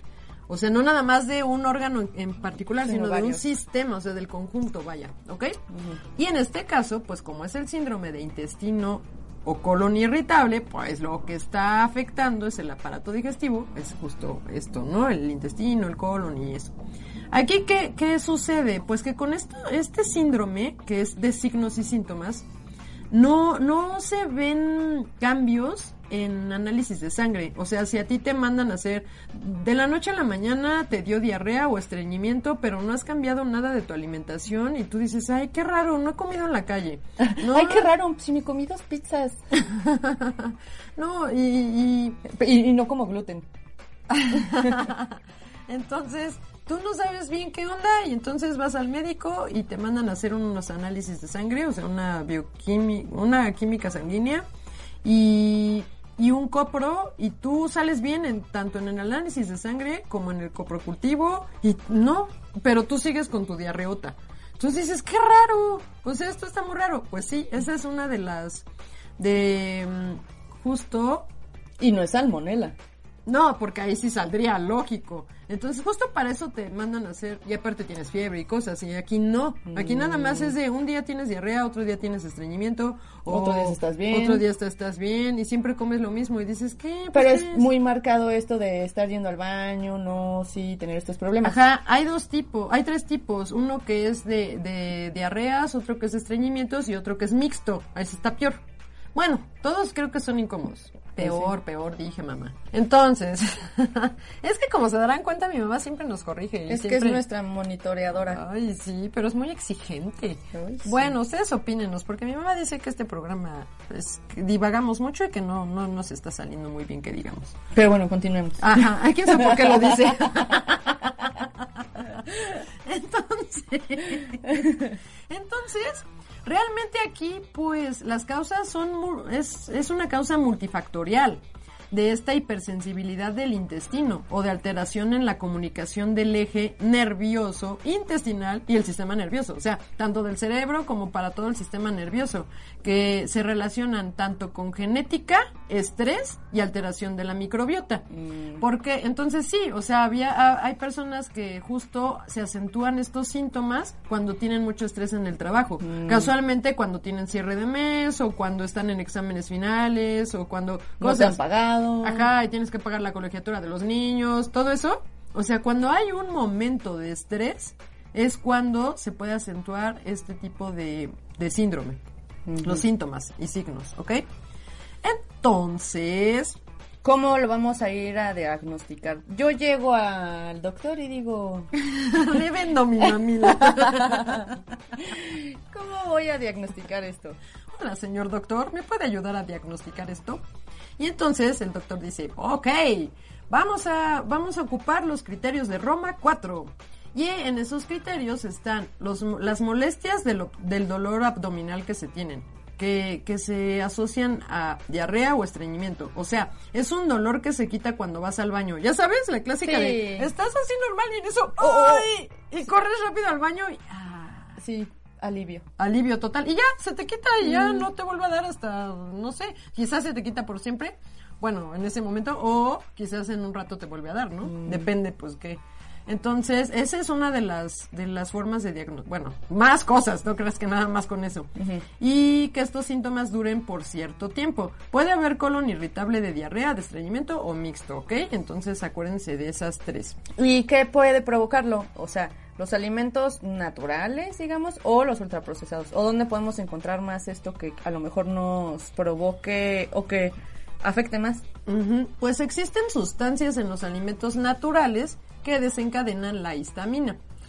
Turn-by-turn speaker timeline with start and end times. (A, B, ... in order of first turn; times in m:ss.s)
0:00.5-0:05.6 A
0:02.8-0:03.4 B
0:05.7-0:06.0 B
0:06.2-0:16.7 A
0:17.3-0:22.4 A
0:23.1-0:37.9 A
0:37.2-0:39.4 B
0:39.6-0:42.2 A
0:42.2-0:43.4 B
0:44.2-0:44.8 B
0:44.3-0:45.2 A
0:45.7-0:54.4 A
0:55.0-1:08.6 A
1:09.2-1:11.3 A
1:11.8-1:12.7 B
1:13.2-1:27.7 A
1:19.7-1:20.5 B
1:23.3-1:24.4 B
1:27.1-1:31.6 B
1:31.4-1:38.6 A
1:39.1-1:47.2 A
1:41.2-1:41.5 B
1:46.7-1:48.4 B
1:48.3-1:57.6 A
1:50.5-1:51.1 B
1:57.7-2:00.0 B
1:58.6-2:01.5 A
2:02.0-2:04.7 A
2:04.5-2:04.9 B
2:05.3-2:28.0 A
2:28.2-2:28.6 B
2:28.6-2:41.4 A
2:35.8-2:36.3 B
2:41.0-2:42.3 B
2:42.0-2:52.0 A
2:52.5-2:52.8 B
2:52.6-2:54.2 A
2:55.0-2:56.6 A
2:57.0-3:01.7 B
3:02.1-3:04.6 A
3:03.4-3:04.4 B
3:05.0-3:07.4 B
3:07.7-3:10.4 A
3:11.0-3:34.6 A
3:29.6-3:30.3 B
3:31.6-3:32.1 B
3:34.6-3:35.6 B
3:35.8-4:00.2 A
3:37.4-3:37.8 B
3:44.4-3:44.9 B
3:51.6-3:51.8 B
4:00.4-4:11.4 B
4:11.7-4:17.2 A